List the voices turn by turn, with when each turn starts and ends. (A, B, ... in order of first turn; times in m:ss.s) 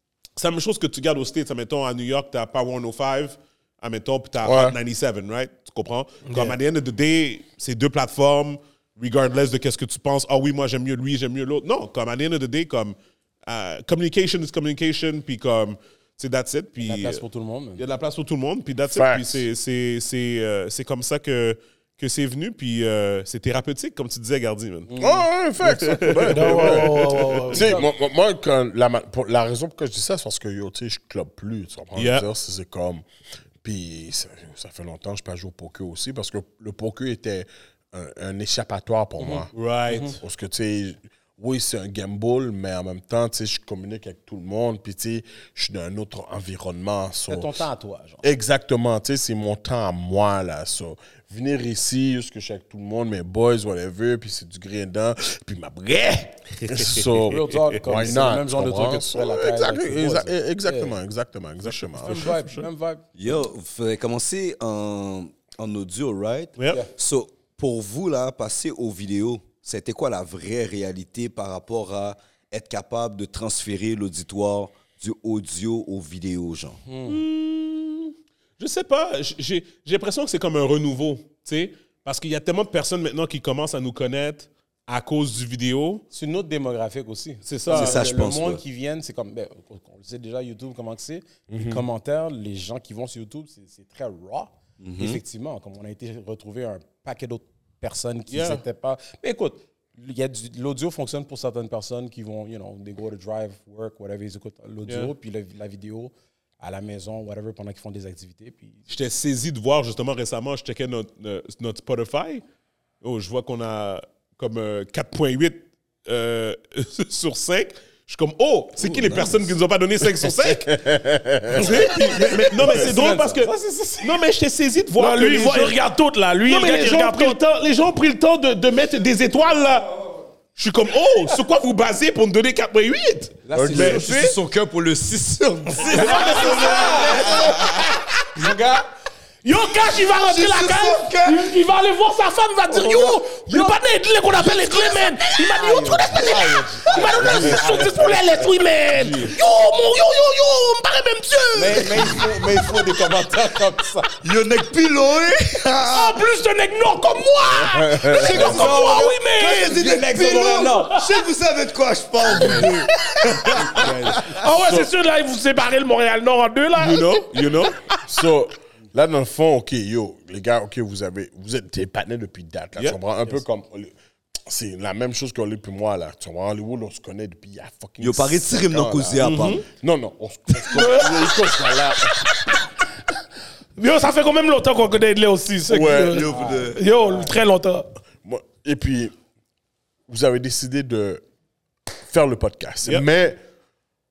0:00.4-0:17.2 A
0:04.4-0:04.8 B
0:06.2-0:06.6 C
0:16.8-0:17.8 D
0:17.8-0:24.9 A
0:18.9-0:19.4 B
0:24.9-0:25.3 D
0:25.0-0:33.0 B
0:25.6-0:26.8 A
0:26.3-0:27.7 C
0:26.4-0:27.8 D
0:32.0-0:32.3 A
0:33.6-0:39.5 B
0:39.2-0:40.2 D
0:39.5-0:40.2 A
0:40.2-0:47.6 B
0:47.3-0:48.2 D
0:48.2-1:02.3 B
0:56.6-0:57.1 A
0:57.2-1:00.9 D
1:01.6-1:02.7 A
1:02.0-1:03.0 D
1:03.2-1:16.8 E
1:16.8-1:17.2 D
1:17.0-1:26.0 A
1:26.1-1:48.9 D
1:27.5-1:28.1 A
1:27.7-1:28.6 E
1:31.5-1:31.8 B
1:34.8-1:35.2 E
1:38.3-1:38.6 A
1:48.9-1:52.4 A
1:53.0-2:00.8 A
2:00.6-2:01.8 B
2:01.5-2:05.8 A
2:01.6-2:04.2 D
2:05.0-2:07.4 C
2:06.4-2:10.0 A
2:10.6-2:14.4 A
2:13.4-2:18.6 E
2:13.5-2:14.1 B
2:15.9-2:17.8 A
2:15.9-2:17.6 D
2:16.0-2:17.4 C
2:18.4-2:18.8 D
2:19.4-2:32.1 C
2:20.0-2:21.5 E
2:22.8-2:23.1 E
2:24.4-2:25.5 E
2:25.5-2:28.2 D
2:28.9-2:29.4 A
2:31.5-2:34.1 D
2:31.8-2:32.2 E
2:34.2-2:36.3 E
2:35.8-2:41.2 C
2:37.7-2:38.6 B
2:38.1-2:44.4 E
2:38.4-2:39.1 D
2:39.7-2:40.7 D
2:42.3-2:42.8 A
2:43.4-2:44.4 A
2:44.3-2:47.2 C
2:44.6-2:44.9 B
2:46.8-2:47.8 A
2:48.0-2:53.9 B
2:54.4-3:02.2 B
2:58.0-2:59.6 E
2:59.2-2:59.6 A
3:00.6-3:01.6 C
3:02.2-3:02.6 C
3:03.8-3:07.9 C
3:05.6-3:06.3 B
3:05.9-3:06.8 E
3:06.3-3:07.3 D
3:08.2-3:09.1 B
3:10.1-3:11.2 B
3:12.1-3:13.4 B